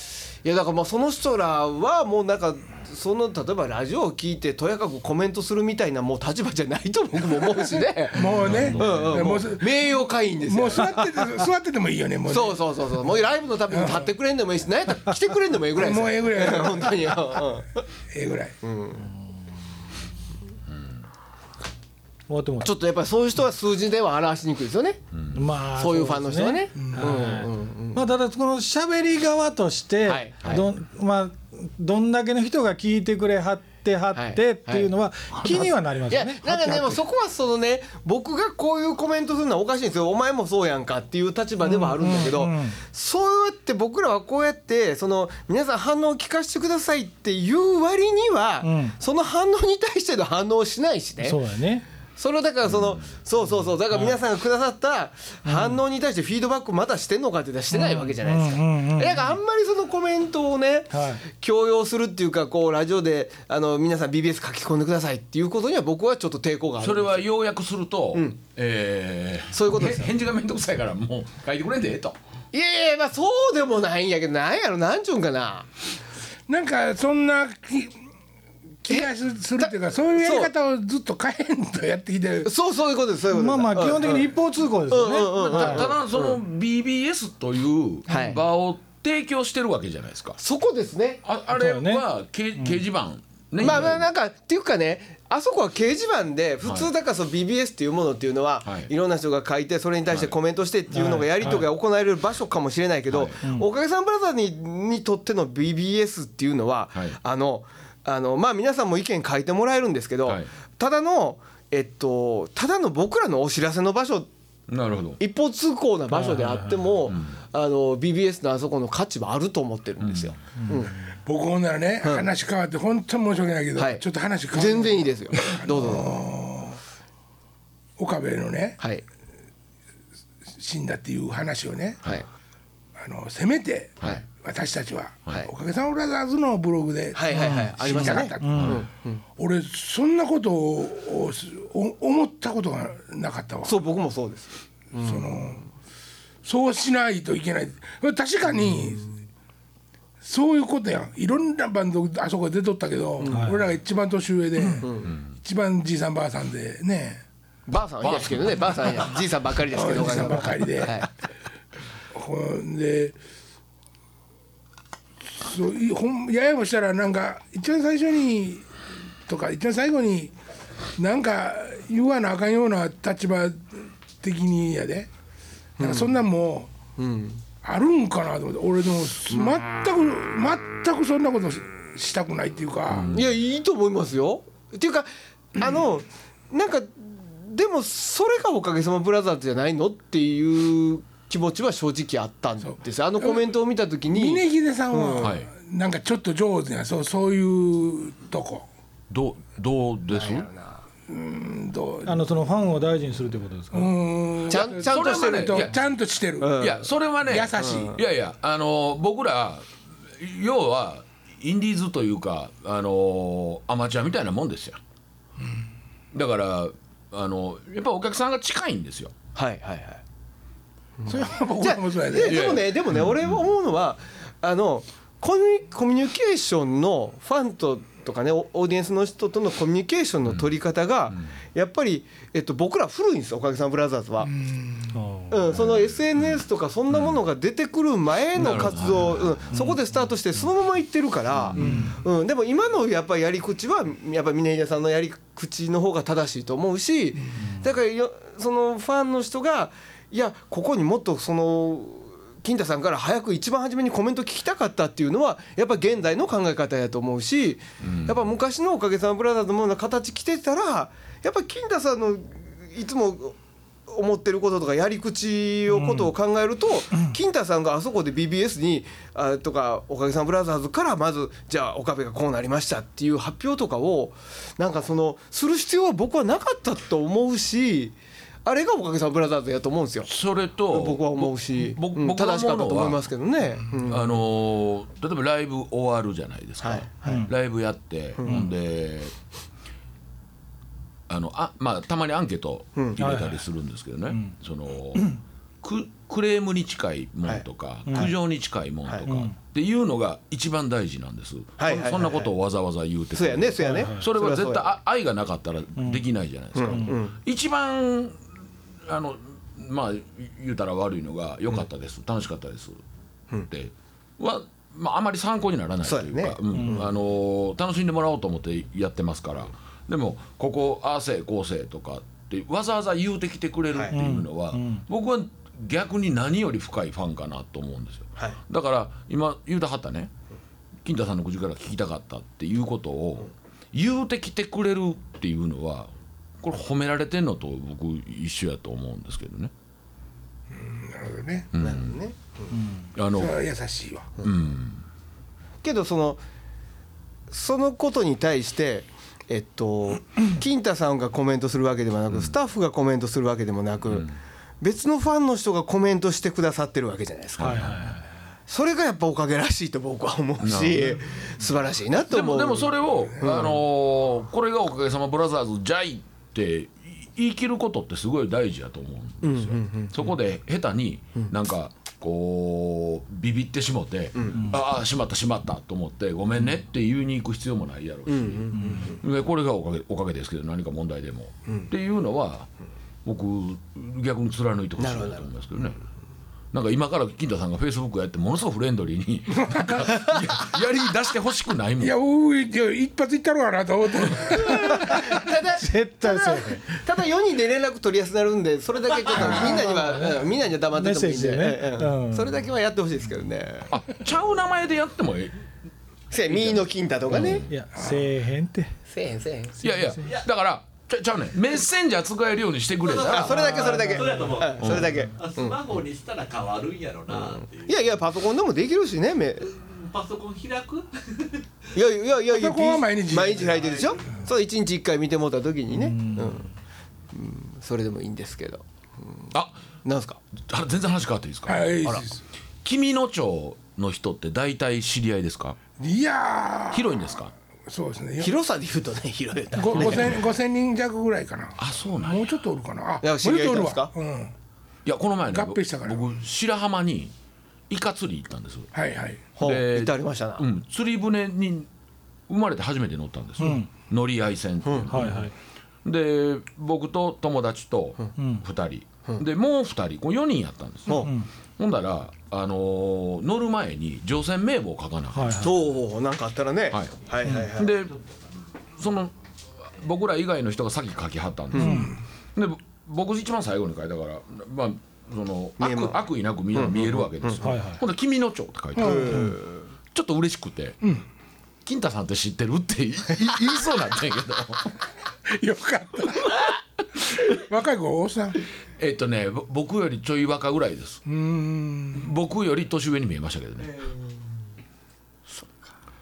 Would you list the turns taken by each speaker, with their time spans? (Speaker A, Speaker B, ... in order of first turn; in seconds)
Speaker A: 0.4-10.9, 12.3-17.9, 18.6-19.1, 22.6-25.0, 25.7-28.1, 30.1-30.7, 34.1-51.4, 52.1-67.2, 69.5-70.1, 72.5-75.7, 78.9-80.5, 82.4-84.3, 84.9-86.4, 88.1-88.4, 90.4-91.2, 93.6-114.3, 115.2-121.0, 122.0-122.3, 123.8-126.2, 128.8-129.0, 137.1-139.2, 143.6-145.6, 153.2-153.5, 154.8-155.1, 157.7-161.1, 175.8-176.2, 177.0-177.4, 179.3-179.6, 183.1-195.4, 200.1-200.8, 204.5-205.7, 206.4-206.8, 207.5-208.0, 219.3-220.0, 221.0-234.3, 235.3-280.1, 280.7-284.1, 286.6-287.3, 288.1-288.5, 292.8-293.0, 297.2-298.1, 301.6-302.3, 303.1-304.7, 306.5-307.2, 315.8-316.9, 341.6-342.6, 345.6-346.2, 347.3-354.1, 354.6-357.7, 358.5-363.6, 369.2-370.0, 374.1-374.5, 378.1-379.0, 381.5-381.7, 384.8-385.3, 394.3-403.7, 406.1-407.5, 408.9-409.7, 412.9-415.6, 417.1-419.5, 421.7-426.5, 427.1-429.3, 429.8-430.2, 438.2-440.2, 443.0-443.9, 449.4-450.4, 454.6-454.9, 465.4-467.8, 471.5-471.9, 475.6-477.5, 478.8-479.7
Speaker B: 7.4-12.7, 13.7-14.1, 15.7-17.2, 18.1-18.6, 26.8-27.1, 76.5-78.0, 78.8-82.5, 121.2-126.8, 128.0-128.8, 130.5-132.0, 132.9-138.8, 139.3-143.8, 144.9-145.6, 146.4-149.1, 150.2-157.2, 159.7-161.1, 162.1-163.2, 165.3-168.7, 169.2-170.3, 171.0-175.1, 175.8-176.7, 177.6-183.2, 192.6-193.6, 194.1-198.7, 201.1-202.4, 203.7-206.6, 207.2-208.0, 221.1-222.6, 234.2-235.0, 241.6-241.9, 340.5-341.5, 343.1-344.1, 389.4-389.8, 391.8-395.1, 399.2-399.6, 407.7-408.1, 422.3-423.9, 431.4-432.2, 435.8-438.3, 439.5-444.3, 445.3-446.0, 448.7-449.3, 471.6-472.0, 478.8-479.2, 485.3-486.4, 487.2-488.4, 491.0-492.1
Speaker C: 8.3-9.2, 25.1-25.4, 66.8-72.2, 85.5-90.4, 91.2-94.1, 96.6-96.9, 98.6-98.9, 103.1-103.4, 114.7-115.2, 117.0-117.4, 120.0-120.4, 138.5-138.8, 158.0-158.5, 182.9-183.2, 195.2-195.5, 199.1-200.5, 204.4-205.8, 206.6-214.8, 216.1-219.1, 222.2-223.4, 235.5-237.2, 238.3-239.7, 241.3-241.8, 257.8-258.2, 280.1-283.0, 283.8-289.1, 291.1-308.2, 308.9-312.8, 313.5-330.1, 330.8-339.5, 341.5-342.0, 342.9-343.3, 344.2-344.8, 357.4-357.9, 360.4-361.0, 362.0-382.5, 383.0-385.8, 386.5-391.9, 403.7-405.4, 406.2-407.6, 409.6-413.5, 414.6-415.0, 430.4-431.8, 432.6-435.6, 436.7-437.3, 439.7-440.2, 441.6-442.4, 444.8-447.1, 447.7-448.7, 449.4-451.7, 452.3-455.3, 455.8-465.5, 466.7-467.9, 468.8-469.1, 469.7-479.4, 479.9-480.8, 481.6-484.8, 488.8-491.0, 491.9-493.8
Speaker D: 22.3-22.7, 25.3-37.0, 41.6-42.8, 48.6-49.0, 51.2-51.8, 53.9-54.2, 55.5-55.8, 57.7-59.3, 60.9-61.2, 83.3-85.9, 91.5-92.1, 100.9-101.7, 116.1-117.0, 137.3-138.8, 153.3-153.6, 202.0-203.9, 234.9-235.6, 239.5-239.8, 241.6-242.0, 265.7-266.1, 287.0-287.3, 293.0-293.4, 294.1-294.4, 297.9-298.1, 299.1-299.4, 303.7-304.0, 305.8-306.0, 316.5-316.8, 323.9-324.9, 342.5-342.9, 357.4-358.1, 378.6-378.9, 394.7-396.8, 399.1-402.4, 407.5-408.7, 413.6-414.2, 425.7-426.4, 453.4-453.7, 454.9-455.3, 458.1-458.4, 460.9-461.3, 465.1-465.5, 467.2-467.5, 471.6-471.9, 477.4-477.8
Speaker E: 412.8-417.8, 419.4-421.4, 423.5-424.0